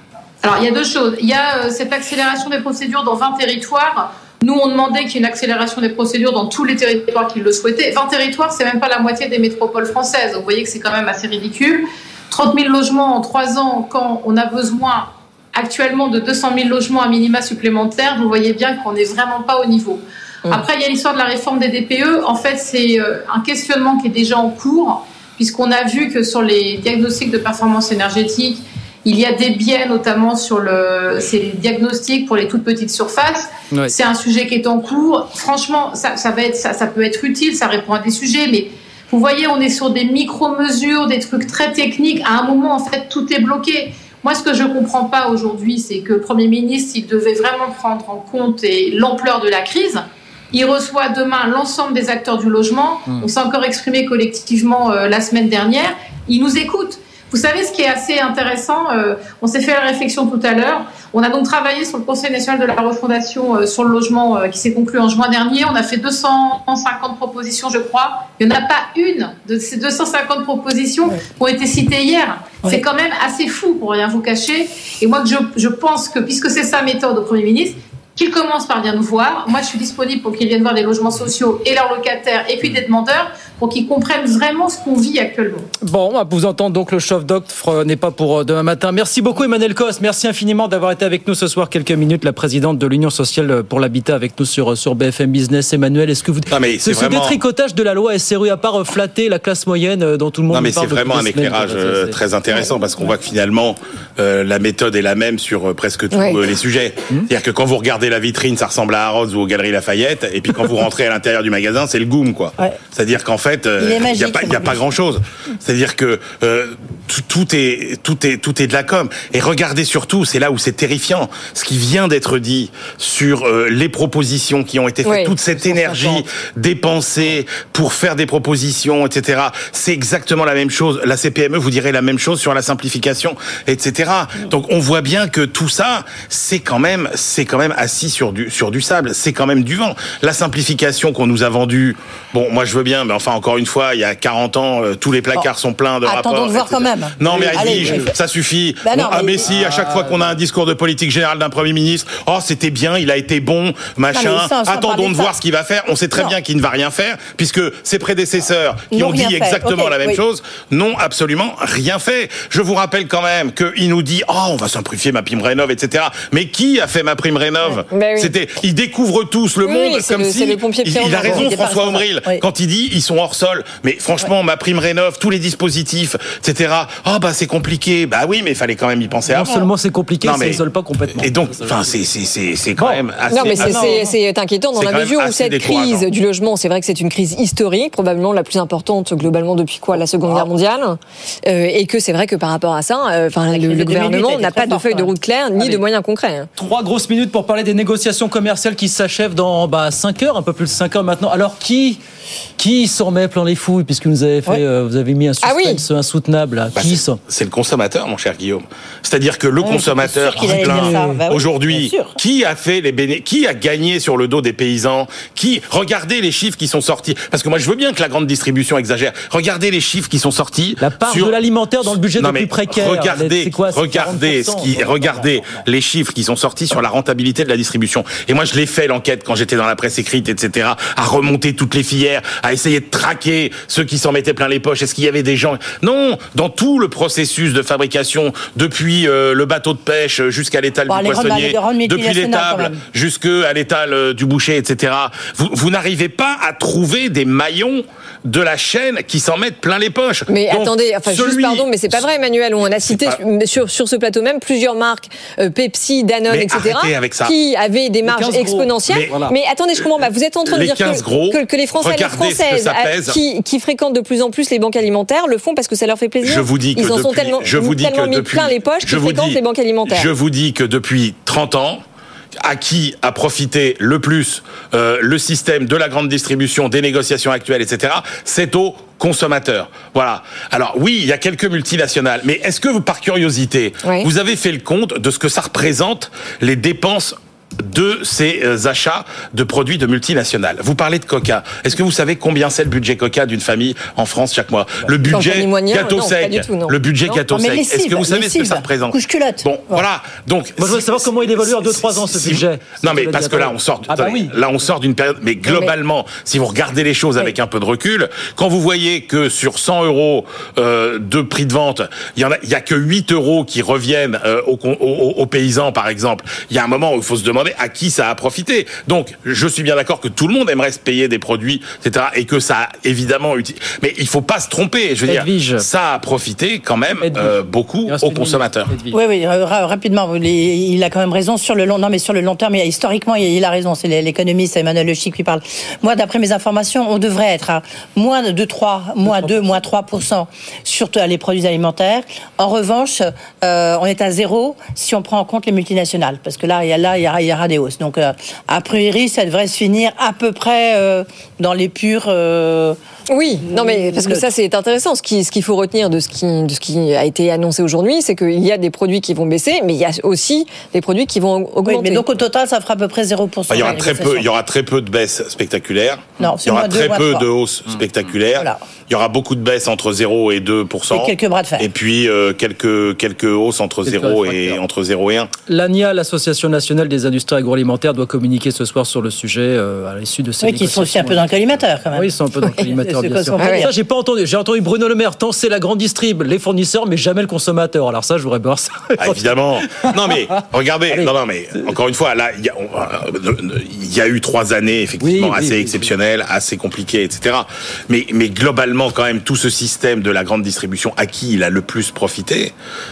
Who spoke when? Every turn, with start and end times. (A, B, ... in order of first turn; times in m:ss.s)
0:00.4-1:25.6 A
1:25.8-1:42.2 B
1:36.5-1:37.4 C
1:40.5-2:59.7 C
1:46.1-1:46.4 D
1:53.8-1:54.8 E
2:05.0-2:05.4 D
2:05.6-2:06.2 B
2:26.0-2:28.1 E
2:27.3-2:28.1 B
2:28.8-2:29.7 E
2:29.4-2:30.4 B
2:34.1-2:35.4 E
2:38.9-2:40.2 E
2:47.9-2:48.3 D
2:49.6-2:51.6 D
2:51.2-2:52.4 E
2:59.3-3:02.0 B
3:00.2-3:00.6 C
3:01.2-3:04.1 C
3:02.8-3:04.1 B
3:03.3-3:16.5 D
3:03.6-3:04.1 E
3:04.8-3:06.1 C
3:13.5-3:15.8 E
3:16.6-3:22.0 B
3:22.6-3:27.2 B
3:25.4-3:25.8 D
3:26.8-4:12.0 C
3:29.6-3:32.2 E
3:30.5-3:31.2 B
3:40.8-3:45.6 B
4:00.9-4:02.8 E
4:10.3-4:30.1 D
4:12.7-4:13.2 C
4:16.3-4:17.3 C
4:18.0-4:19.3 B
4:18.9-4:19.2 C
4:20.4-4:23.2 C
4:26.2-4:31.8 C
4:32.4-5:28.7 C
4:43.8-4:44.1 D
4:55.1-4:57.2 D
4:57.3-4:59.9 E
5:00.6-5:04.4 B
5:05.4-5:05.7 D
5:25.0-5:25.7 B
5:27.0-5:29.0 B
5:28.9-5:52.8 E
5:39.1-5:39.3 B
5:53.1-6:02.0 D
5:53.4-5:54.2 E
6:01.6-6:04.3 E
6:03.5-6:15.3 C
6:06.2-6:07.3 E
6:10.9-6:11.7 E
6:13.8-6:14.6 B
6:15.5-6:21.3 B
6:20.4-6:22.1 E
6:21.9-6:29.3 B
6:22.7-6:23.7 E
6:23.4-6:23.7 D
6:29.0-6:42.5 C
6:35.0-6:35.9 B